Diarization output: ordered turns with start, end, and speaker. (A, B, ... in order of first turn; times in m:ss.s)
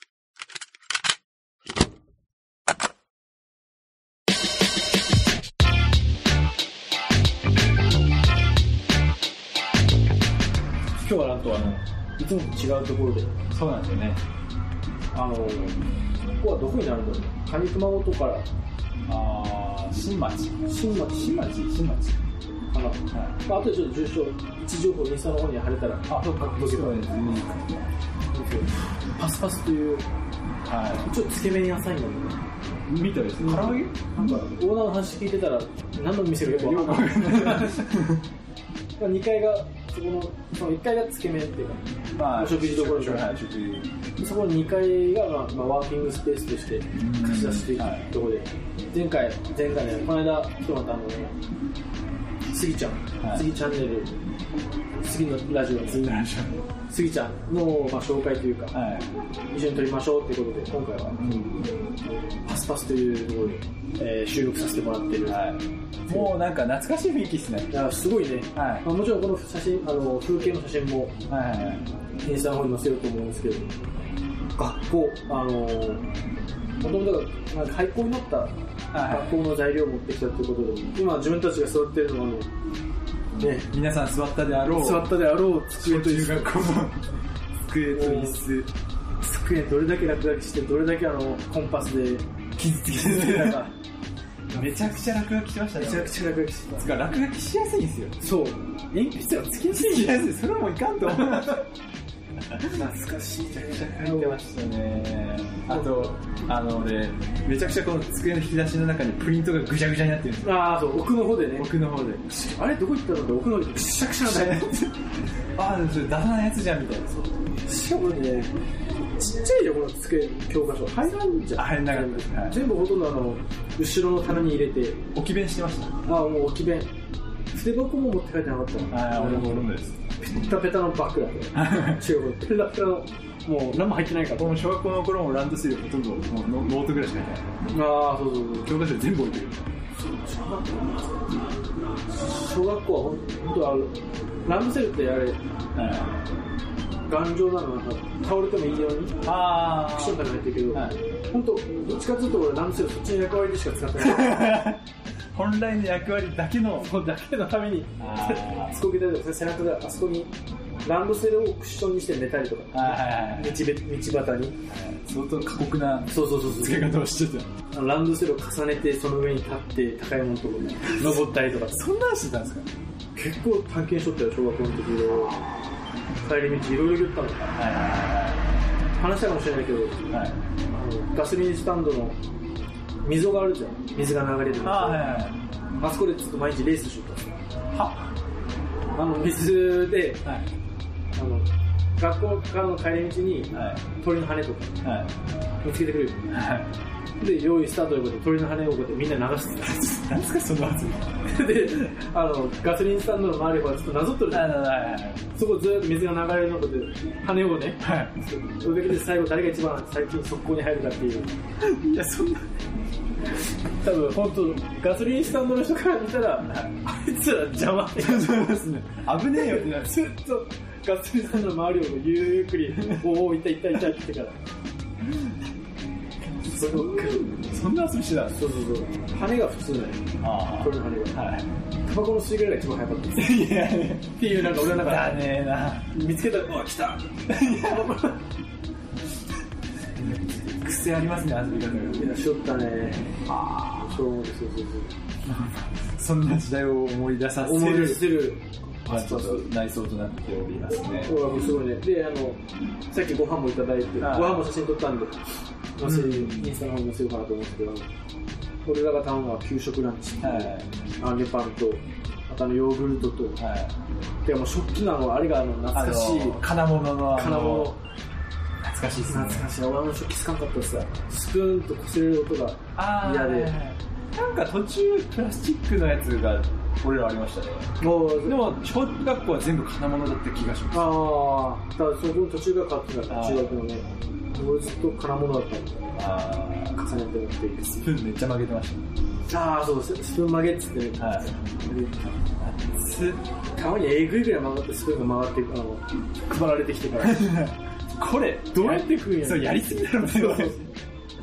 0:11.0-0:13.3 A
0:13.5-0:14.2 B
0:15.1-0:15.8 A
0:16.4-0:18.5 A
0:19.1-0:22.2 B
0:20.7-0:21.5 A
0:22.7-0:27.0 A
0:23.1-0:23.4 B
0:26.1-0:27.9 B
0:28.3-0:30.0 A
0:30.6-0:31.1 B
0:31.1-0:32.4 A
0:32.9-0:34.0 B
0:33.4-0:37.9 A
0:36.4-0:38.2 B
0:39.0-0:43.4 A
0:42.2-0:43.9 B
0:44.2-0:51.4 A
0:47.0-0:48.1 B
0:52.5-0:54.1 A
0:53.2-0:53.5 B
0:55.0-0:56.2 A
0:55.8-0:56.6 B
0:56.9-0:58.8 A
0:58.7-0:59.1 B
0:59.5-1:01.2 A
1:01.2-1:01.6 B
1:02.4-1:05.4 A
1:05.3-1:07.8 B
1:07.7-1:11.2 A
1:08.6-1:08.9 B
1:11.3-1:11.9 B
1:12.2-1:13.7 A
1:14.6-1:16.1 A
1:16.8-1:22.5 A
1:18.9-1:19.4 B
1:23.4-1:23.7 A
1:23.7-1:25.1 B
1:24.7-1:26.8 A
1:25.7-1:27.1 B
1:27.6-1:28.7 B
1:27.9-1:28.4 A
1:29.2-1:33.7 A
1:32.6-1:33.7 B
1:34.5-1:35.0 A
1:34.5-1:36.2 B
1:35.8-1:36.9 A
1:36.8-1:38.2 B
1:38.2-1:40.3 A
1:39.7-1:41.7 B
1:41.1-1:41.6 A
1:42.4-1:42.9 B
1:42.7-1:44.4 A
1:43.5-1:50.6 B
1:45.7-1:46.2 A
1:50.4-1:51.7 A
1:51.6-1:52.3 B
1:52.3-1:54.8 A
1:54.0-1:55.0 B
1:55.6-1:57.4 B
1:57.6-1:58.6 A
1:59.2-2:05.0 A
2:01.6-2:02.6 B
2:05.1-2:06.0 B
2:06.1-2:06.9 A
2:07.5-2:09.7 A
2:08.9-2:10.0 B
2:10.2-2:14.6 A
2:11.6-2:12.0 B
2:14.4-2:17.5 B
2:17.7-2:18.7 A
2:18.6-2:19.7 B
2:19.9-2:21.3 A
2:22.1-2:25.4 A
2:25.8-2:26.2 B
2:27.1-2:29.2 A
2:29.2-2:31.0 B
2:29.8-2:34.7 A
2:34.0-2:36.9 B
2:36.8-2:40.3 A
2:38.0-2:38.8 B
2:40.8-2:44.6 A
2:42.7-2:43.6 B
2:44.7-2:47.5 B
2:46.1-2:46.9 A
2:47.7-2:51.8 A
2:51.0-2:52.7 B
2:53.2-2:55.4 A
2:56.2-2:57.6 A
2:57.6-2:58.5 B
2:59.0-3:00.0 A
3:00.1-3:00.4 B
3:00.7-3:02.2 A
3:03.0-3:05.0 A
3:04.6-3:05.4 B
3:05.8-3:07.4 A
3:07.7-3:08.1 B
3:09.0-3:10.2 A
3:11.2-3:14.8 A
3:13.5-3:13.8 B
3:14.8-3:15.1 B
3:15.6-3:16.2 A
3:16.3-3:16.7 B
3:17.2-3:20.0 A
3:19.8-3:21.8 B
3:21.3-3:24.5 A
3:24.3-3:25.2 B
3:25.3-3:31.3 A
3:27.8-3:28.2 B
3:31.6-3:32.5 B
3:33.8-3:38.6 A
3:38.0-3:40.0 B
3:39.3-3:44.4 A
3:46.4-3:47.4 A
3:46.5-3:48.4 B
3:48.3-3:51.2 A
3:50.2-3:51.5 B
3:51.8-3:53.5 A
3:53.2-3:55.9 B
3:54.2-3:55.3 A
3:55.9-3:58.2 A
3:57.3-3:57.9 B
4:00.0-4:02.1 B
4:02.0-4:03.1 A
4:03.2-4:04.0 B
4:03.8-4:04.9 A
4:05.3-4:08.1 B
4:07.4-4:09.4 A
4:08.9-4:11.2 B
4:11.0-4:15.2 A
4:14.0-4:14.5 B
4:15.8-4:17.9 A
4:15.8-4:16.5 B
4:18.6-4:23.4 A
4:20.2-4:20.7 B
4:23.4-4:23.8 B
4:24.2-4:26.4 A
4:25.7-4:27.8 B
4:27.1-4:27.8 A
4:28.6-4:29.5 B
4:29.1-4:33.5 A
4:32.8-4:41.0 B
4:37.8-4:38.4 A
4:40.7-4:45.8 A
4:43.1-4:43.6 B
4:46.0-4:46.8 B
4:46.7-4:47.9 A
4:47.8-4:48.9 B
4:49.3-4:52.2 A
4:51.0-4:51.3 B
4:52.4-4:53.2 B
4:53.5-4:57.4 A
4:57.0-5:00.7 B
4:58.5-5:00.7 A